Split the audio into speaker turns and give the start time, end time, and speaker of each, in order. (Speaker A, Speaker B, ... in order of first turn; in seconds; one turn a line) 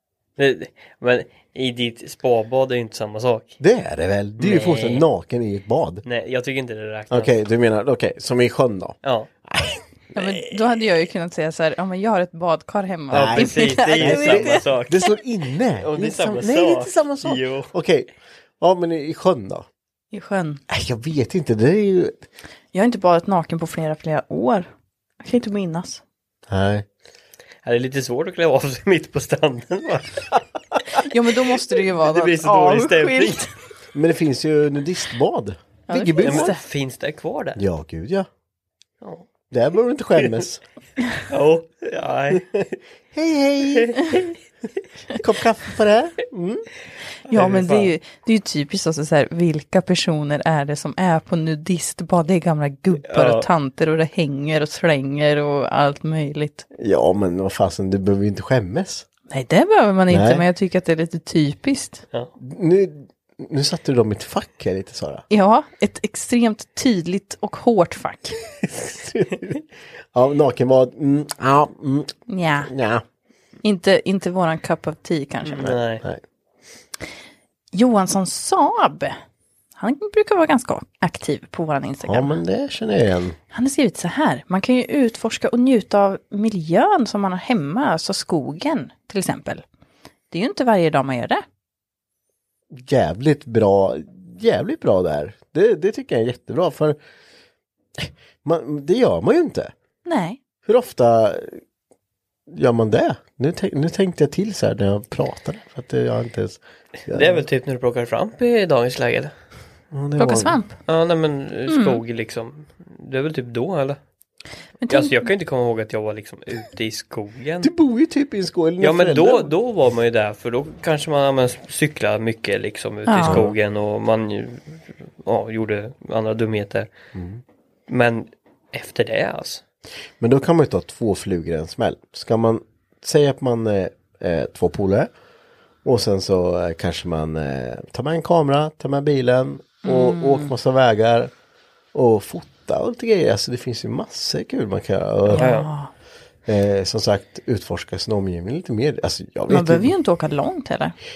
Speaker A: 0.4-3.5
Speaker B: 3.6-6.0
Speaker A: 4.4-5.1
Speaker A: 6.0-7.3
Speaker B: 7.1-9.0
Speaker A: 9.0-9.3
Speaker B: 9.5-9.8
Speaker C: 10.1-14.6
Speaker A: 13.1-15.1
Speaker B: 13.1-18.1
Speaker A: 15.8-17.7
Speaker B: 18.6-19.7
Speaker C: 20.1-20.6
Speaker B: 20.7-22.2
Speaker C: 22.7-24.7
Speaker C: 25.2-26.0
Speaker B: 26.5-26.9
Speaker A: 27.6-30.3
Speaker C: 31.0-33.5
Speaker A: 31.9-33.4
Speaker B: 33.9-36.5
Speaker C: 35.9-36.6
Speaker A: 36.2-37.6
Speaker B: 37.6-38.3
Speaker B: 39.5-40.6
Speaker A: 40.2-40.4
Speaker A: 41.3-42.7
Speaker B: 43.1-44.0
Speaker A: 43.7-44.2
Speaker B: 45.1-46.7
Speaker C: 47.3-56.7
Speaker A: 47.3-47.9
Speaker A: 53.1-53.5
Speaker B: 56.8-59.1
Speaker C: 59.3-62.0
Speaker B: 60.1-60.5
Speaker B: 62.4-65.2
Speaker C: 65.3-68.4
Speaker B: 68.6-69.6
Speaker B: 70.1-73.0
Speaker C: 72.3-72.7
Speaker C: 73.6-75.8
Speaker A: 75.5-76.0
Speaker B: 75.7-76.2
Speaker C: 77.7-79.2
Speaker C: 79.8-82.4
Speaker B: 82.0-83.4
Speaker C: 83.5-89.7
Speaker C: 90.3-91.4
Speaker B: 92.7-97.0
Speaker B: 98.0-99.7
Speaker C: 100.0-100.4
Speaker B: 100.7-101.6
Speaker B: 102.5-107.4
Speaker A: 107.1-109.3
Speaker B: 109.9-110.6
Speaker C: 110.2-110.8
Speaker A: 110.9-114.0
Speaker C: 111.7-112.0
Speaker C: 114.8-115.2
Speaker A: 114.9-117.7
Speaker B: 117.6-119.5
Speaker A: 118.8-126.9
Speaker C: 123.1-123.5
Speaker B: 123.2-123.5
Speaker B: 127.1-127.4
Speaker A: 127.9-129.6
Speaker B: 130.2-135.1
Speaker B: 135.8-141.3
Speaker C: 139.8-140.5
Speaker B: 141.9-145.5
Speaker A: 145.3-145.7
Speaker C: 145.3-145.9
Speaker B: 146.5-149.9
Speaker C: 149.5-150.9